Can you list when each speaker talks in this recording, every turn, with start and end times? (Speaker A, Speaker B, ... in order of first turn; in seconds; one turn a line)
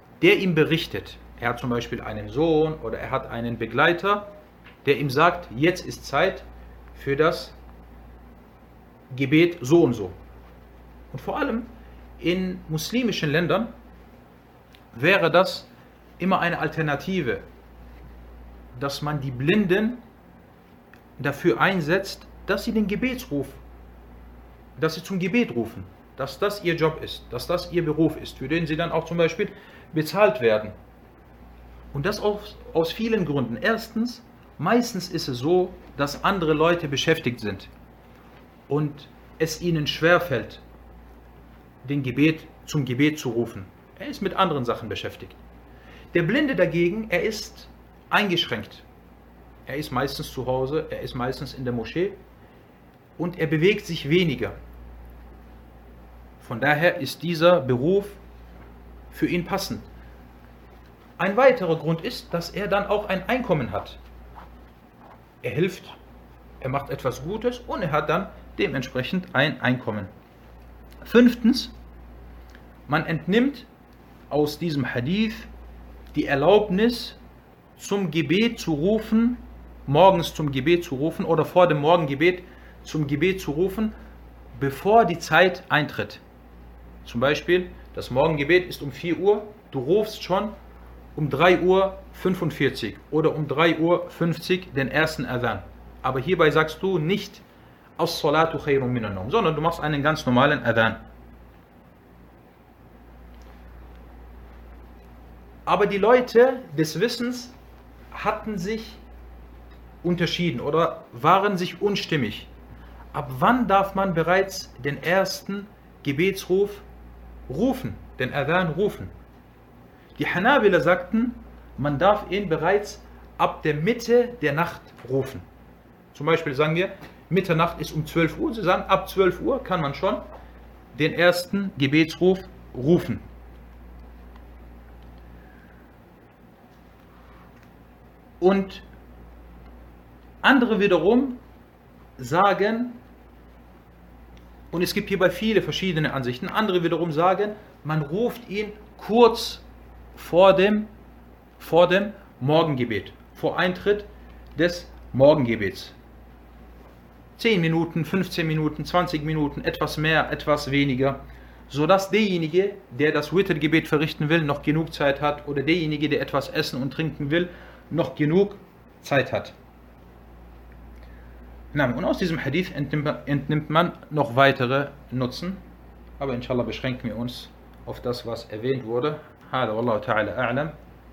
Speaker A: 0.2-4.3
Speaker A: 4.8-7.5
Speaker A: 9.1-10.1
Speaker A: 11.1-13.7
Speaker A: 14.9-17.4
Speaker A: 18.7-20.0
Speaker A: 21.2-23.6
Speaker A: 24.8-30.7
Speaker A: 31.9-37.7
Speaker A: 38.7-40.6
Speaker A: 41.8-45.4
Speaker A: 46.1-48.8
Speaker A: 49.7-52.2
Speaker A: 53.2-54.5
Speaker A: 56.4-58.2
Speaker A: 59.1-59.9
Speaker A: 61.2-64.0
Speaker A: 65.4-66.0
Speaker A: 66.6-70.1
Speaker A: 71.0-71.7
Speaker A: 72.9-73.7
Speaker A: 74.3-75.5
Speaker A: 76.1-77.2
Speaker A: 77.8-83.9
Speaker A: 84.5-86.2
Speaker A: 87.0-90.5
Speaker A: 91.1-97.4
Speaker A: 98.0-101.0
Speaker A: 105.7-107.5
Speaker A: 108.1-109.0
Speaker A: 110.0-112.5
Speaker A: 113.1-116.8
Speaker A: 117.5-119.1
Speaker A: 120.2-125.4
Speaker A: 126.1-130.2
Speaker A: 130.9-133.2
Speaker A: 138.4-138.8
Speaker A: 140.4-141.4
Speaker A: 142.2-143.0
Speaker A: 144.7-149.6
Speaker A: 150.1-150.9
Speaker A: 151.6-155.9
Speaker A: 157.4-169.5
Speaker A: 171.7-175.6
Speaker A: 176.2-180.7